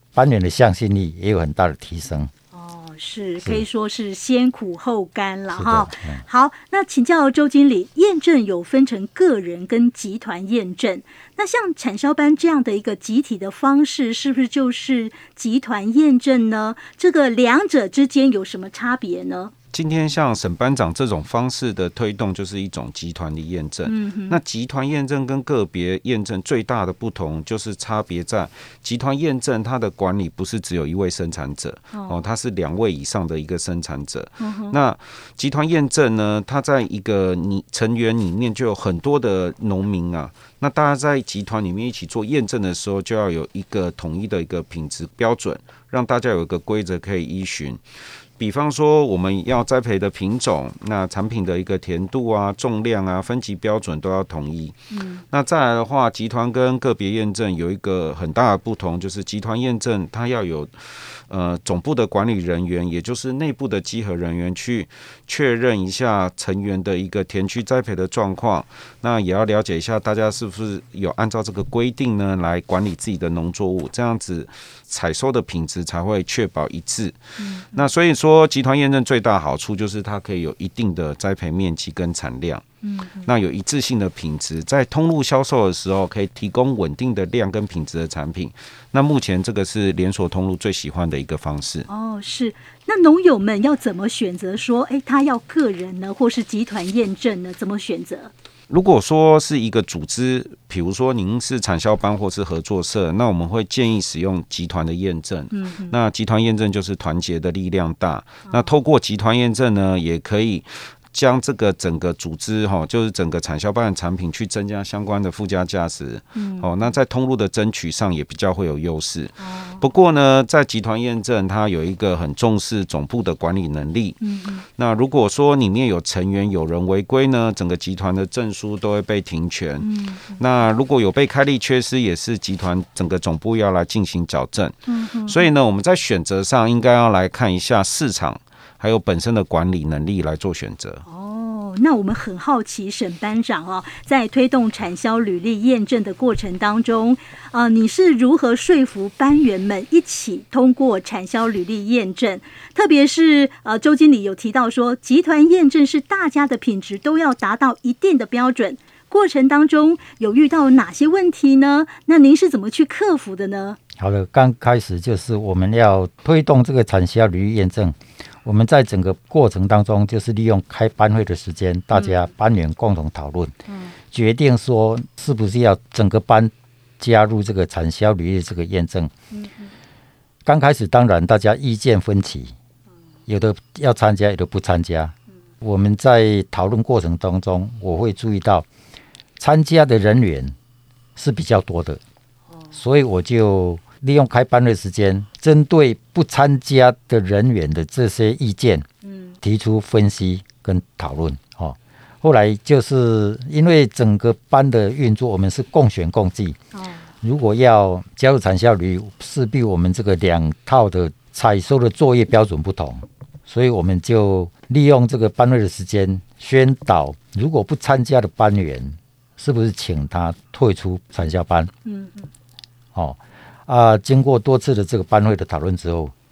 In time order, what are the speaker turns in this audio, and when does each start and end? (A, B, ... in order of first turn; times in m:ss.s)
0:00.1-0:02.3 A
0:02.5-0:19.5 B
0:05.5-0:06.2 A
0:19.7-0:47.8 C
0:23.8-0:24.4 B
0:31.9-0:32.2 B
0:34.4-0:34.8 B
0:48.4-0:54.8 C
0:54.9-0:55.2 B
0:55.3-1:17.2 C
1:17.4-1:17.9 B
1:17.7-1:22.6 C
1:22.8-1:23.3 B
1:23.2-1:31.9 C
1:31.9-1:38.3 B
1:38.7-2:04.2 C
1:45.5-1:45.9 B
1:56.3-1:56.9 B
1:59.4-1:59.9 B
2:04.2-2:04.6 B
2:04.8-2:14.7 C
2:09.8-2:10.4 B
2:14.9-2:15.5 B
2:15.3-2:21.0 C
2:21.0-2:43.8 B
2:44.0-2:53.5 A
2:53.7-2:53.9 B
2:54.1-2:59.1 A
2:59.3-2:59.7 B
3:00.4-3:02.5 A
3:03.3-3:08.6 A
3:09.4-3:10.5 A
3:11.2-3:12.0 A
3:12.7-3:18.8 A
3:19.0-3:19.4 B
3:19.4-3:26.6 A
3:26.7-3:27.1 B
3:27.2-3:41.7 A
3:41.8-3:42.3 B
3:42.9-3:46.1 A